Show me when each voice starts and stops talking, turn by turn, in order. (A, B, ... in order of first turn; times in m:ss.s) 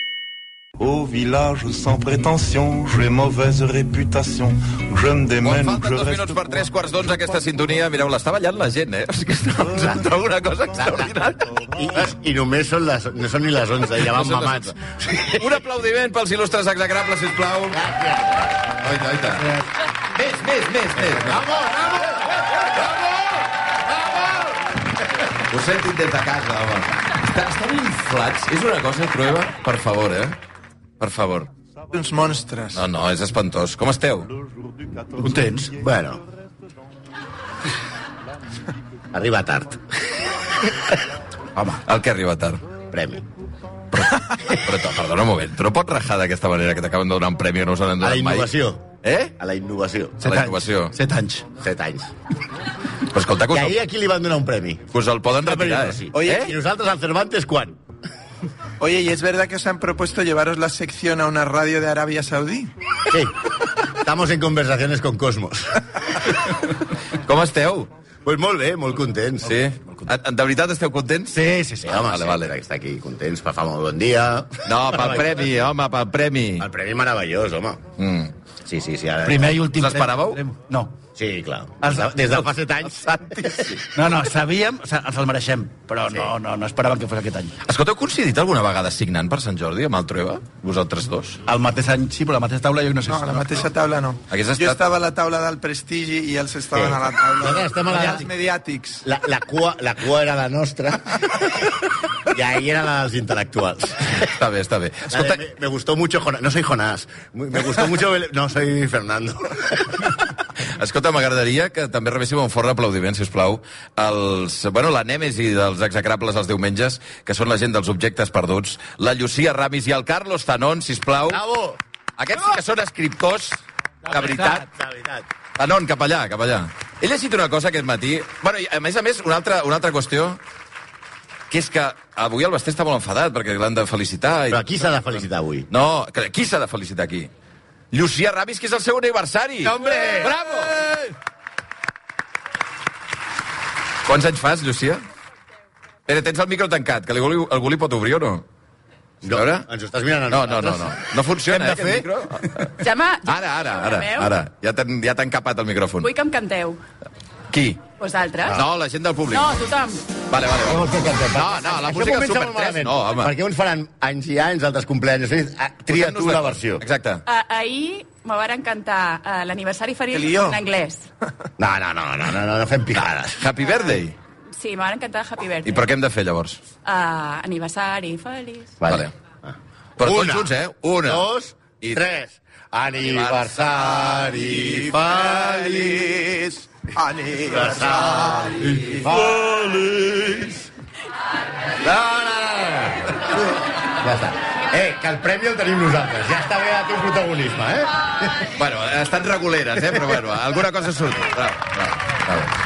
0:00.8-0:06.4 A
0:05.4-0:11.6 B
0:10.8-0:11.1 C
0:11.7-0:15.6 C
0:14.1-0:14.7 B
0:15.4-0:17.8 B
0:17.7-0:18.7 C
0:18.7-0:19.6 B
0:20.1-0:21.5 B
0:21.2-0:22.3 C
0:22.2-0:24.6 B
0:25.3-0:30.4 B
0:31.0-0:31.5 B
0:31.9-0:32.8 D
0:32.8-0:34.3 B
0:35.2-0:35.8 E
0:35.7-0:36.2 C
0:39.1-0:39.8 C
0:41.6-0:41.8 E
0:41.8-0:42.6 B
0:42.9-0:43.2 C
0:43.9-0:48.5 B
0:48.0-0:48.9 C
0:49.0-0:49.4 B
0:49.4-0:50.3 C
0:50.2-0:51.5 E
0:50.2-0:51.0 B
0:51.6-0:52.1 C
0:53.1-0:53.7 B
0:53.5-0:54.8 C
0:54.9-0:56.5 B
0:55.4-0:57.8 C
0:56.1-0:56.5 D
0:58.8-1:02.7 D
1:03.1-1:03.3 C
1:03.9-1:05.9 C
1:07.2-1:07.9 B
1:08.2-1:09.5 C
1:09.4-1:11.4 B
1:09.8-1:10.1 E
1:11.3-1:12.0 E
1:11.8-1:15.5 C
1:12.0-1:12.5 B
1:14.7-1:16.7 B
1:16.6-1:17.8 C
1:18.0-1:18.3 B
1:18.6-1:19.6 C
1:19.2-1:21.0 E
1:19.8-1:20.4 B
1:21.2-1:23.8 C
1:21.8-1:22.5 E
1:23.0-1:23.9 B
1:23.9-1:27.6 E
1:26.1-1:26.3 C
1:27.7-1:31.4 B
1:31.5-1:33.6 E
1:33.1-1:39.0 D
1:34.3-1:34.8 B
1:36.8-1:38.3 C
1:39.0-1:41.8 C
1:42.3-1:44.3 C
1:44.2-1:45.4 B
1:45.1-1:50.1 C
1:50.6-2:01.4 B
2:01.3-2:01.8 C
2:02.2-2:04.6 B
2:04.4-2:05.3 C
2:05.6-2:10.4 B
2:11.5-2:14.7 B
2:14.5-2:15.7 C
2:15.7-2:17.3 B
2:17.9-2:21.0 B
2:19.6-2:20.3 C
2:24.1-2:25.0 B
2:26.1-2:28.5 B
2:29.2-2:31.0 C
2:29.3-2:29.7 B
2:30.3-2:32.8 B
2:31.5-2:32.7 E
2:32.8-2:34.3 F
2:33.3-2:36.1 B
2:36.0-2:36.8 F
2:37.5-2:37.8 B
2:38.0-2:38.6 F
2:38.5-2:39.5 B
2:39.3-2:40.0 F
2:40.3-2:43.3 B
2:40.6-2:46.8 C
2:45.9-2:47.2 B
2:47.3-2:51.1 F
2:50.1-2:50.6 D
2:51.6-2:53.5 C
2:53.4-2:54.2 B
2:53.6-2:54.0 F
2:54.6-2:55.8 F
2:55.6-2:56.6 B
2:56.8-2:58.8 F
2:58.8-3:00.5 C
3:00.0-3:01.3 B
3:01.0-3:06.1 C
3:03.0-3:03.4 B
3:04.3-3:09.0 D
3:07.4-3:10.7 C
3:11.8-3:18.4 C
3:18.5-3:22.5 B